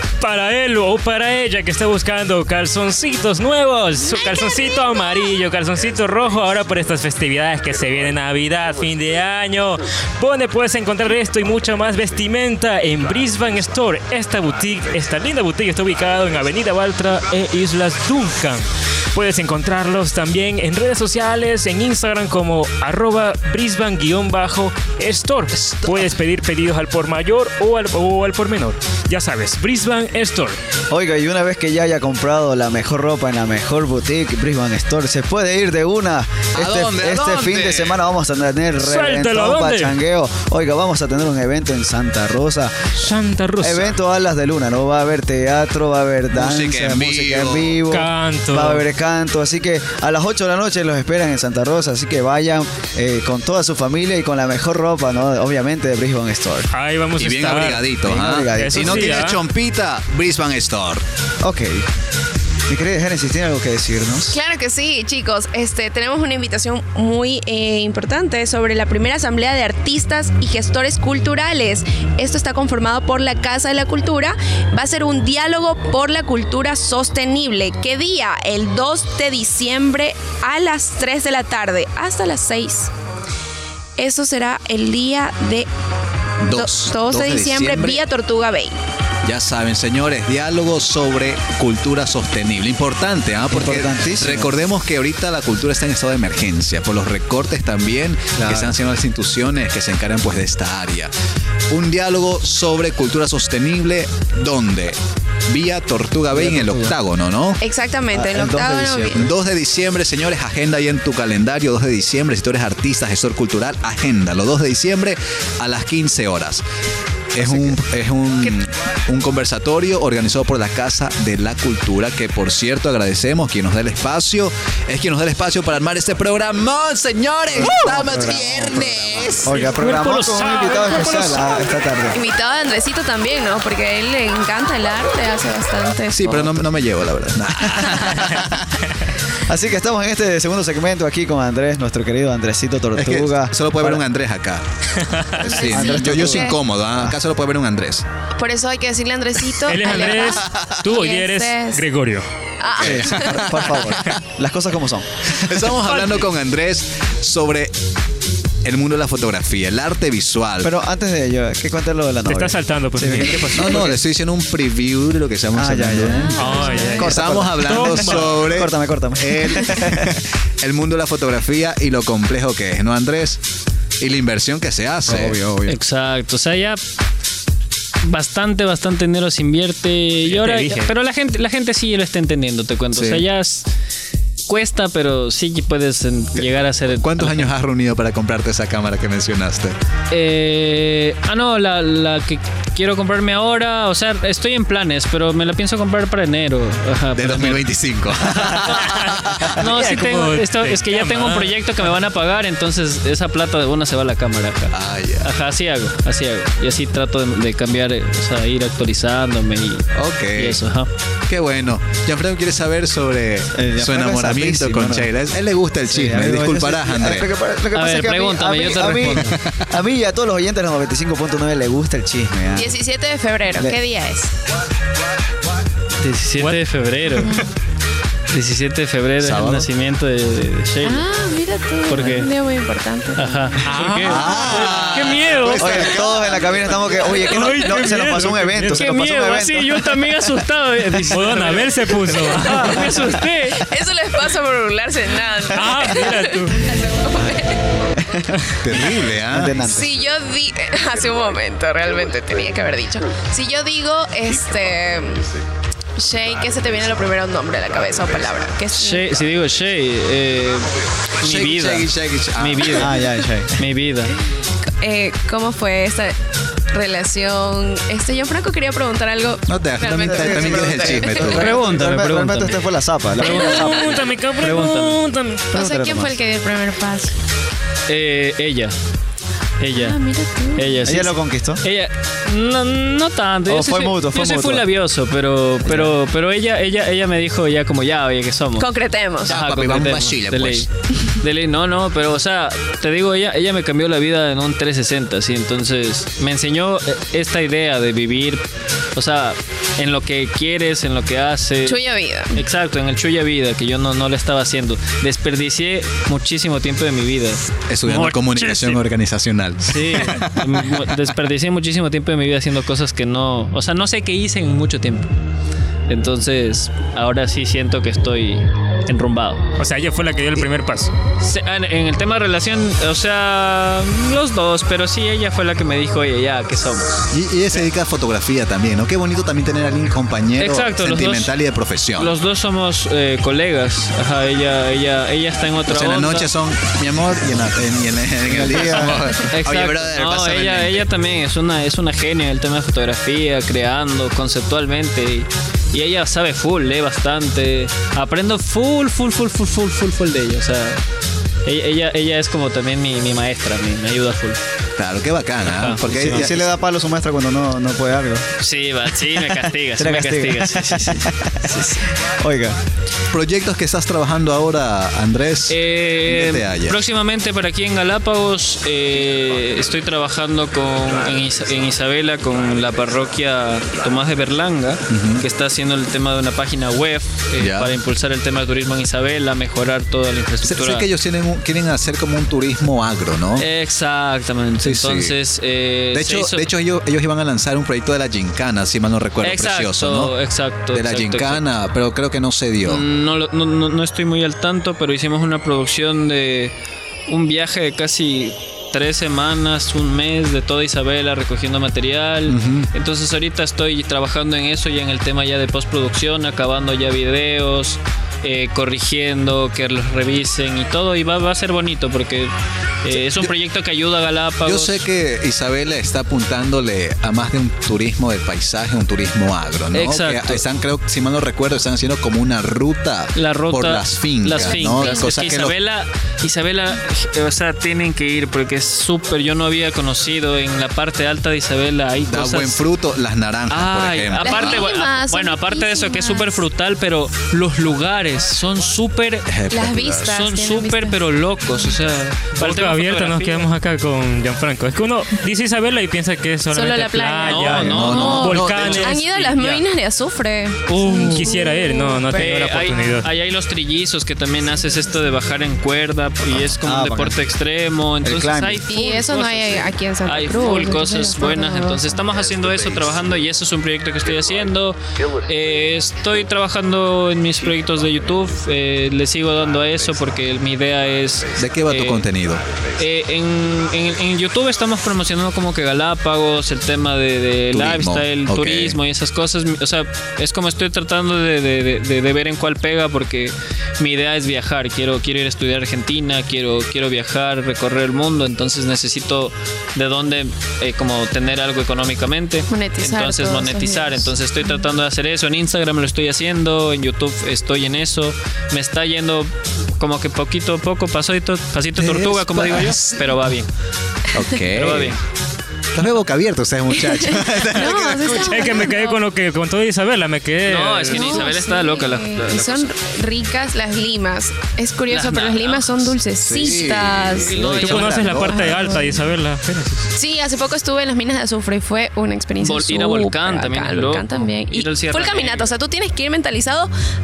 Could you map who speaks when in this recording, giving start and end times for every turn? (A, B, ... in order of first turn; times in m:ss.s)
0:00.2-0:30.6 A
0:25.5-0:26.1 B
0:30.9-0:43.0 C
0:36.5-0:38.0 B
0:38.8-0:40.0 A
0:43.0-0:44.0 A
0:43.6-0:56.7 C
0:46.3-0:47.8 B
0:47.9-0:48.8 A
0:56.7-0:57.9 A
0:57.2-1:01.0 B
0:58.1-0:59.3 C
0:58.5-0:59.4 A
1:01.4-1:01.9 C
1:02.7-1:04.4 C
1:04.3-1:22.9 D
1:24.0-1:25.7 D
1:26.4-1:28.0 B
1:26.5-1:28.8 D
1:29.2-1:41.1 B
1:33.5-1:34.6 C
1:38.4-1:38.8 C
1:41.7-1:45.0 B
1:45.5-1:47.6 B
1:46.3-1:47.0 C
1:47.6-1:49.3 D
1:48.1-1:49.3 C
1:49.2-1:56.6 B
1:57.3-2:09.6 B
1:57.4-1:57.8 C
2:07.5-2:12.2 C
2:09.6-2:11.6 A
2:12.1-2:16.4 D
2:16.1-2:18.7 B
2:16.3-2:16.6 C
2:19.4-2:24.0 C
2:23.0-2:24.6 B
2:25.1-2:25.4 A
2:25.4-2:28.0 B
2:25.4-2:27.2 C
2:25.4-2:26.6 D
2:28.4-2:31.8 D
2:29.6-2:32.3 A
2:30.4-2:30.7 B
2:32.6-2:33.7 D
2:32.7-2:34.1 B
2:32.8-2:35.4 C
2:35.3-2:37.7 B
2:35.9-2:36.2 A
2:38.6-2:40.7 B
2:40.6-2:44.0 C
2:42.3-2:43.6 A
2:43.5-2:46.4 B
2:45.5-2:50.2 C
2:46.0-2:47.2 D
2:46.3-2:48.4 A
2:46.9-2:53.4 B
2:54.0-2:55.4 B
2:55.1-2:55.8 C
2:55.7-2:56.8 E
2:58.0-3:03.7 E
3:00.3-3:00.9 A
3:02.9-3:03.2 B
3:04.5-3:07.5 E
3:07.0-3:09.8 B
3:10.1-3:17.6 E
3:17.2-3:19.9 B
3:18.8-3:21.6 A
3:19.5-3:30.9 E
3:24.7-3:25.3 B
3:29.9-3:30.6 B
3:31.3-3:37.3 B
3:33.5-3:35.1 C
3:35.9-3:42.8 C
3:37.7-3:39.4 E
3:39.0-3:39.6 B
3:42.6-3:44.3 D
3:46.0-3:47.4 E
3:47.1-3:47.4 A
3:47.2-3:47.5 D
3:48.3-3:51.0 E
3:49.2-3:49.7 B
3:50.8-3:53.6 D
3:51.9-3:52.3 E
3:53.2-3:55.7 E
3:53.6-3:54.9 A
3:54.0-3:56.5 B
3:55.6-4:00.0 C
3:57.2-3:58.9 A
3:58.7-4:03.6 E
4:01.0-4:02.9 A
4:03.5-4:07.6 D
4:05.5-4:06.6 A
4:08.0-4:10.0 C
4:08.6-4:09.6 B
4:09.6-4:15.3 D
4:16.0-4:19.2 D
4:18.7-4:22.9 E
4:21.2-4:22.9 B
4:22.7-4:23.6 C
4:23.6-4:24.2 E
4:24.8-4:26.2 D
4:26.7-4:31.5 D
4:29.5-4:31.6 B
4:30.1-4:34.0 C
4:31.2-4:32.7 E
4:33.2-4:35.5 A
4:33.2-4:33.8 E
4:34.4-4:35.0 E
4:35.5-4:36.2 C
4:35.5-4:37.2 D
4:37.9-4:38.8 E
4:39.6-4:40.0 E
4:39.7-4:40.8 D
4:40.6-4:48.7 E
4:40.8-4:41.6 C
4:43.5-4:44.7 C
4:48.6-4:49.3 D
4:49.2-4:50.7 B
4:49.3-5:08.8 E
5:01.6-5:02.4 D
5:07.7-5:10.8 B
5:09.6-5:15.1 E
5:15.9-5:19.5 E
5:19.6-5:20.9 A
5:21.2-5:27.0 E
5:27.1-5:32.1 B
5:30.4-5:31.3 E
5:32.0-5:36.3 E
5:35.7-5:40.9 B
5:38.3-5:39.1 C
5:38.7-5:50.8 E
5:51.4-5:54.4 E
5:54.8-5:56.5 B
5:55.4-5:56.4 E
5:55.8-5:58.3 C
5:58.4-6:01.8 E
5:59.3-6:02.6 C
6:03.1-6:06.8 B
6:05.5-6:20.9 E
6:14.9-6:15.2 B
6:17.4-6:17.7 B
6:20.4-6:23.5 B
6:23.4-6:26.5 E
6:24.6-6:25.2 B
6:25.9-6:30.1 B
6:29.2-6:31.4 E
6:30.7-6:32.8 B
6:32.7-6:36.5 E
6:37.1-6:52.3 E
6:42.3-6:42.7 B
6:52.8-6:54.8 E
6:53.0-6:53.3 B
6:54.4-7:05.6 B
6:59.7-7:00.4 E
7:03.2-7:12.6 E
7:04.3-7:05.1 D
7:12.1-7:14.7 B
7:13.5-7:19.3 E
7:14.2-7:16.4 D
7:19.3-7:20.2 B
7:19.5-7:21.0 D
7:20.1-7:23.5 E
7:22.4-7:29.5 A
7:26.5-7:32.3 D
7:27.2-7:29.6 E
7:27.7-7:29.0 B
7:30.7-7:31.3 E
7:30.7-7:33.1 A
7:32.2-7:52.1 E
7:36.6-7:37.2 C
7:38.0-7:38.6 C
7:38.7-7:41.9 D
7:51.4-7:52.4 B
7:52.8-8:23.5 E
7:57.5-7:58.8 B
8:12.5-8:14.1 D
8:21.8-8:23.2 B
8:24.1-8:25.0 B
8:24.3-8:25.0 E
8:25.8-8:28.7 B
8:26.8-8:29.0 D
8:28.3-8:31.3 A
8:30.5-8:32.7 E
8:30.9-8:39.0 D
8:34.9-8:36.0 E
8:36.2-8:39.0 B
8:37.3-8:37.9 E
8:37.6-8:39.9 A
8:39.9-8:46.7 D
8:42.4-8:45.5 E